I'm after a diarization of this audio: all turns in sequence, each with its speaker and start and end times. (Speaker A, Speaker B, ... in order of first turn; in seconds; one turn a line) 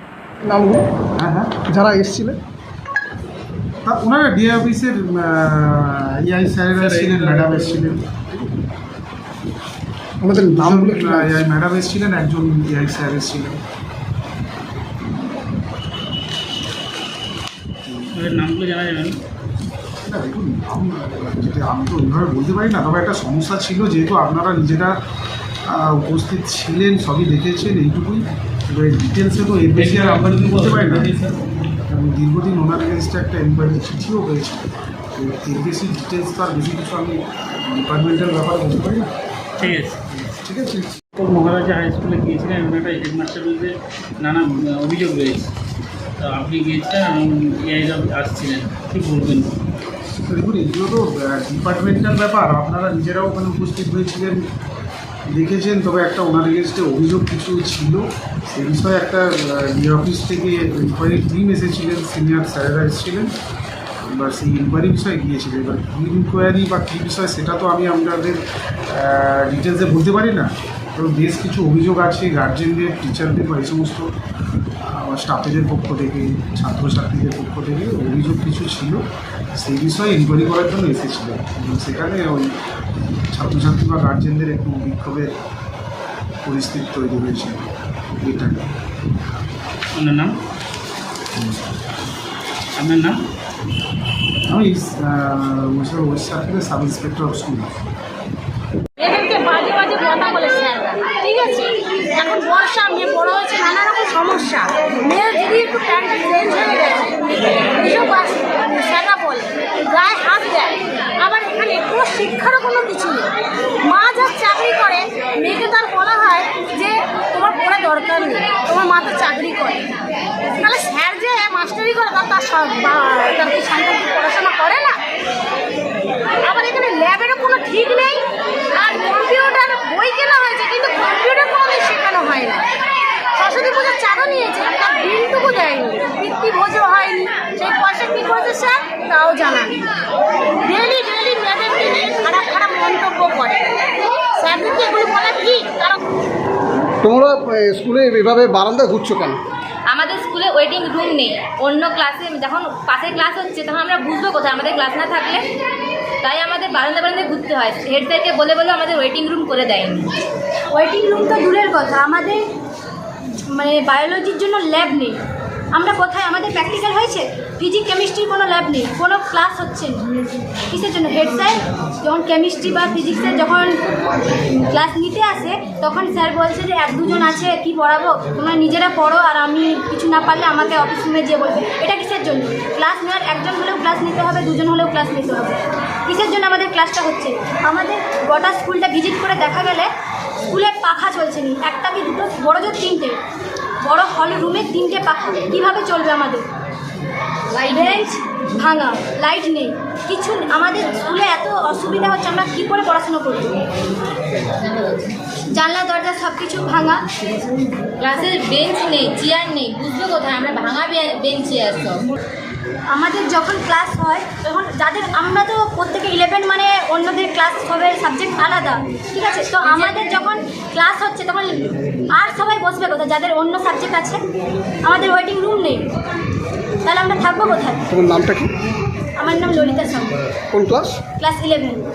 Speaker A: 0.5-0.9
Speaker B: 1.2-1.7
Speaker A: 1.7-2.4
Speaker B: 3.9-8.3
Speaker C: 6.8-7.8
Speaker A: 10.2-11.4
Speaker B: 10.3-13.6
Speaker C: 18.1-19.2
Speaker B: 20.0-25.0
Speaker B: 25.7-31.2
Speaker C: 29.7-31.4
Speaker B: 31.9-34.6
Speaker B: 35.2-39.1
Speaker C: 39.6-40.0
Speaker B: 40.2-41.0
Speaker C: 41.2-45.5
Speaker C: 46.2-49.5
Speaker B: 50.2-54.5
Speaker B: 55.3-63.3
Speaker B: 64.0-74.1
Speaker B: 74.8-79.0
Speaker B: 79.6-82.6
Speaker B: 83.3-85.3
Speaker B: 86.4-87.7
Speaker B: 88.2-88.7
Speaker C: 90.0-90.3
Speaker C: 92.8-93.2
Speaker B: 94.5-97.8
Speaker D: 99.0-113.3
Speaker D: 113.8-119.9
Speaker D: 120.6-125.0
Speaker D: 126.4-132.7
Speaker D: 133.4-139.8
Speaker D: 140.7-143.6
Speaker D: 144.4-146.0
Speaker A: 147.0-149.4
Speaker E: 149.9-155.4
Speaker E: 156.2-160.1
Speaker F: 160.7-162.4
Speaker F: 163.5-165.2
Speaker F: 165.7-170.0
Speaker F: 170.7-189.9
Speaker F: 190.5-193.2
Speaker F: 193.8-196.4
Speaker E: 197.6-198.1
Speaker F: 197.7-203.6
Speaker F: 205.5-207.1
Speaker E: 208.0-212.1
Speaker F: 212.9-224.2
Speaker E: 219.6-220.0
Speaker F: 224.8-225.9
Speaker F: 226.8-227.8
Speaker A: 227.9-228.5
Speaker F: 229.2-230.2
Speaker A: 230.5-231.0
Speaker F: 231.2-231.9